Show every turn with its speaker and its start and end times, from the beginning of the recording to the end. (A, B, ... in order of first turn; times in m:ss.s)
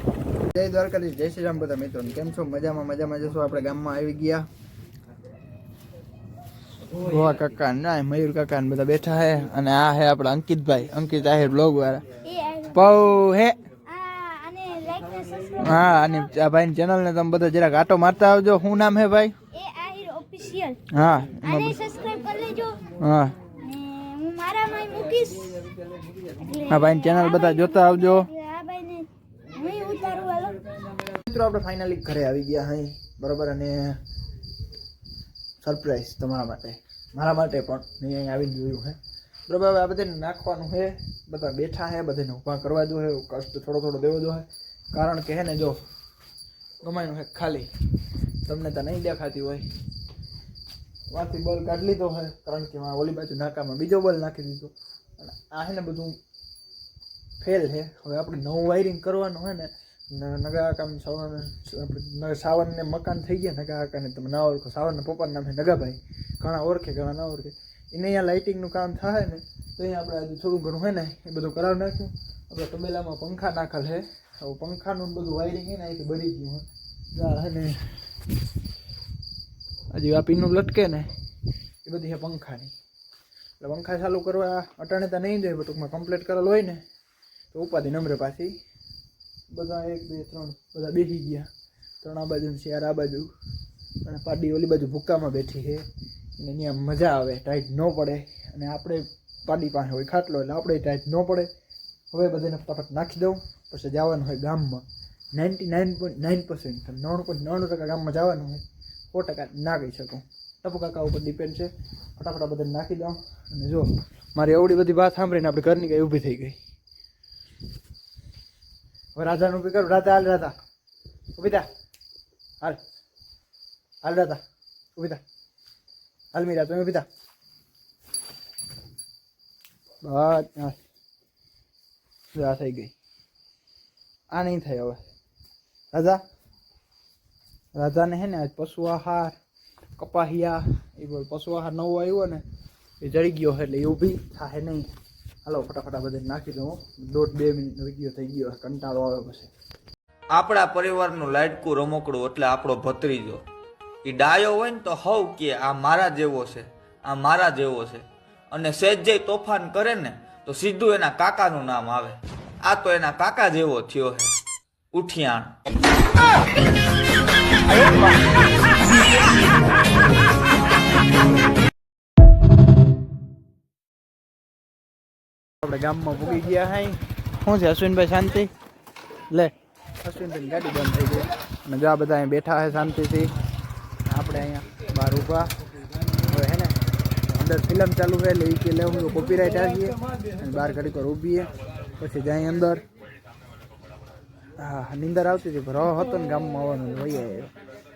0:00.5-0:04.4 A
0:06.9-0:12.0 A
0:12.2-0:12.8 B
0:12.7-0:13.6 A
0:13.8-0:16.1 B
0:15.6-0:19.3 A
0:19.5-0:20.8 B
0:20.9-0:21.8 A
0:21.4-0:22.8 B
0:22.9-0:23.3 A
0:23.5-0:30.8 B
0:26.6-0:28.3 A
0:31.1-0:34.0 A
0:35.6-0:45.8 A
0:46.8-0:47.7 A
0:48.4-0:49.6 A
0:51.1-0:56.2 A
0:57.4-1:17.8 A
1:19.9-1:21.1 A
1:21.8-1:22.7 A
1:23.6-1:26.8 A
1:27.5-1:28.5 A
1:29.5-1:31.5 A
1:32.0-1:33.3 A
1:34.0-1:35.8 A
1:36.4-1:41.5 A
1:42.1-1:56.6 A
1:59.1-2:00.5 A
2:01.3-2:01.7 A
2:04.0-2:04.4 A
2:05.0-2:05.2 A
2:06.3-2:07.0 A
2:10.0-2:10.8 A
2:12.3-2:12.9 A
2:14.3-2:15.0 A
2:15.9-2:16.2 A
2:17.7-2:19.4 A
2:20.0-2:22.4 A
2:23.0-2:24.8 A
2:25.4-2:29.5 A
2:30.3-2:33.4 C
2:34.0-2:44.3 C
2:44.9-2:45.5 C
2:47.8-2:48.1 A
2:55.6-2:58.5 A
3:00.0-3:03.3 A
3:04.1-3:05.5 A
3:06.3-3:06.8 A
3:07.3-3:12.8 A
3:14.6-3:17.5 A